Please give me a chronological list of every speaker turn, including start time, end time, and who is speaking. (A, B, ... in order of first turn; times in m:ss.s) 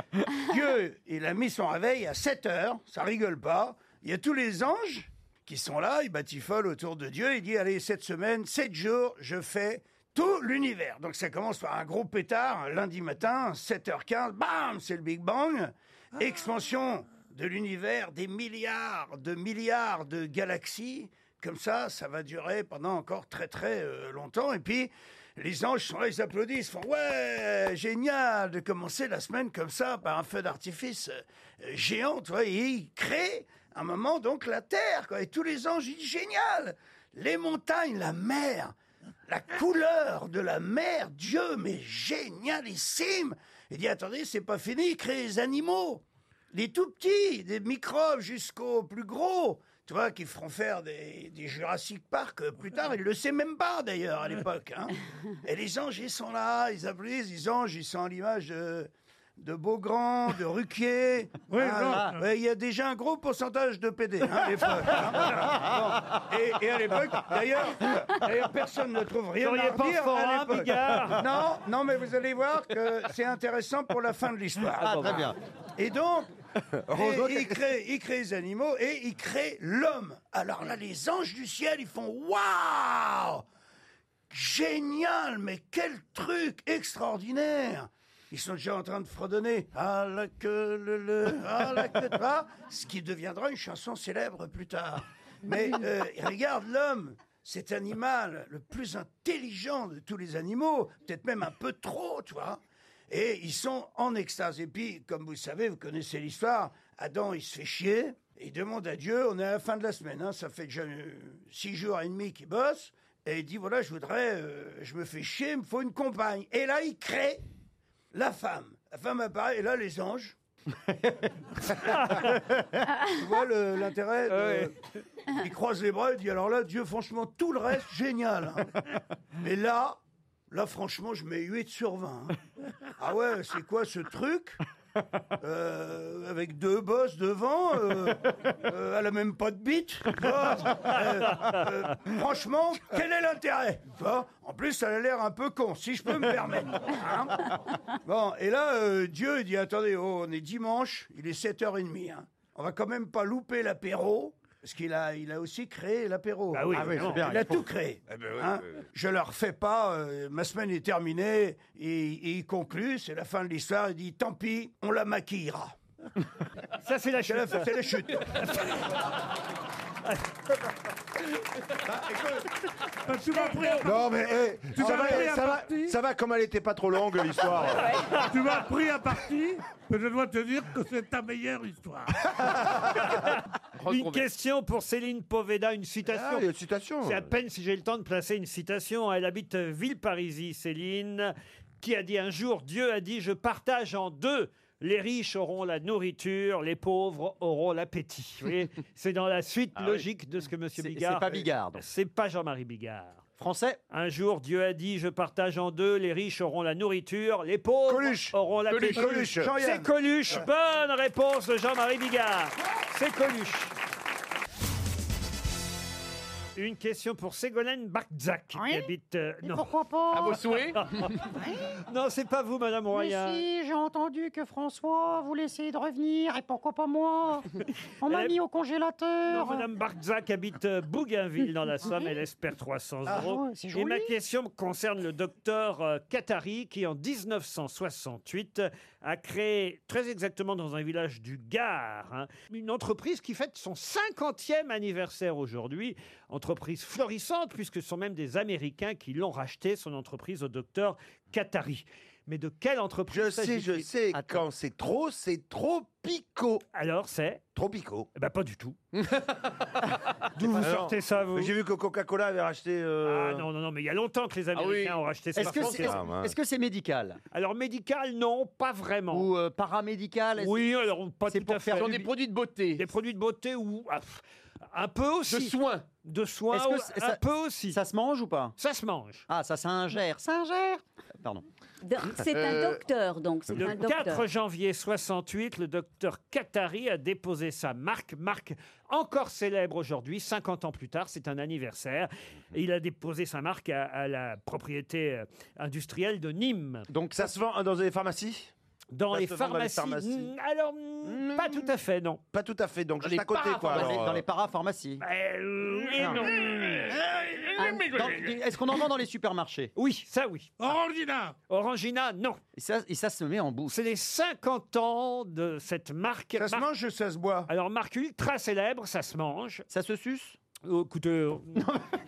0:00.3-0:38.8 A
0:16.2-0:16.5 B
0:39.3-1:16.3 A
1:01.5-1:02.3 B
1:09.4-1:11.2 C
1:14.8-1:15.4 D
1:16.9-1:17.6 E
1:16.9-1:23.4 A
1:24.3-1:57.4 A
1:58.1-2:00.4 A
2:01.8-2:02.4 C
2:03.0-2:04.7 A
2:04.3-2:04.7 C
2:05.4-2:08.7 A
2:09.4-2:10.0 A
2:10.5-2:12.3 A
2:13.0-2:14.6 A
2:15.4-2:27.4 A
2:20.6-2:21.6 C
2:28.0-2:45.8 A
2:36.5-2:37.3 C
2:36.7-2:37.6 D
2:38.1-2:38.8 E
2:46.8-2:49.0 C
2:47.2-2:48.3 A
2:53.0-2:56.0 B
2:53.3-2:53.8 F
2:53.8-2:58.0 E
2:57.7-2:58.0 F
2:58.3-3:02.6 B
3:03.0-3:06.5 C
3:03.8-3:04.2 G
3:06.1-3:07.3 E
3:07.0-3:23.2 C
3:19.8-3:20.0 D
3:20.8-3:21.8 D
3:23.4-3:23.8 D
3:23.9-3:33.7 C
3:27.9-3:28.3 A
3:28.7-3:29.1 G
3:28.9-3:29.9 A
3:29.0-3:29.5 E
3:36.6-3:39.7 C
3:38.5-3:38.9 H
3:39.4-3:40.4 H
3:40.1-3:41.1 G
3:40.8-3:41.2 C
3:41.4-3:41.7 H
3:41.9-3:43.4 C
3:42.9-3:47.4 H
3:48.0-3:49.7 H
3:48.1-3:48.4 C
3:49.3-4:13.9 C
3:53.1-3:54.1 H
4:13.1-4:16.6 E
4:14.1-4:14.4 D
4:16.7-4:17.4 C
4:17.5-4:18.1 E
4:18.1-4:18.8 C
4:18.9-4:19.4 G
4:20.4-4:21.5 C
4:20.5-4:23.4 E
4:23.0-4:26.0 C
4:24.5-4:25.9 G
4:25.4-4:27.2 D
4:25.8-4:26.4 E
4:27.3-4:29.3 C
4:29.1-4:30.7 D
4:30.4-4:32.1 C
4:31.3-4:32.0 D
4:31.8-4:32.8 G
4:32.8-4:37.8 C
4:35.3-4:35.8 G
4:36.5-4:38.6 D
4:38.6-4:39.2 C
4:39.3-4:40.2 D
4:40.2-4:40.8 H
4:41.8-4:44.2 F
4:42.3-4:42.8 G
4:43.5-4:56.9 C
4:56.9-4:57.3 D
4:57.1-4:58.5 E
4:58.9-5:02.2 C
4:59.1-5:00.3 E
5:01.0-5:01.7 E
5:02.3-5:04.2 E
5:03.0-5:04.0 G
5:03.6-5:05.0 D
5:05.0-5:06.8 C
5:07.6-5:09.7 D
5:09.8-5:10.5 C
5:10.6-5:11.4 B
5:11.5-5:12.4 C
5:12.6-5:13.8 D
5:13.7-5:16.7 C
5:16.4-5:17.5 A
5:17.5-5:19.6 C
5:19.7-5:20.4 D
5:20.6-5:21.6 C
5:21.6-5:21.8 D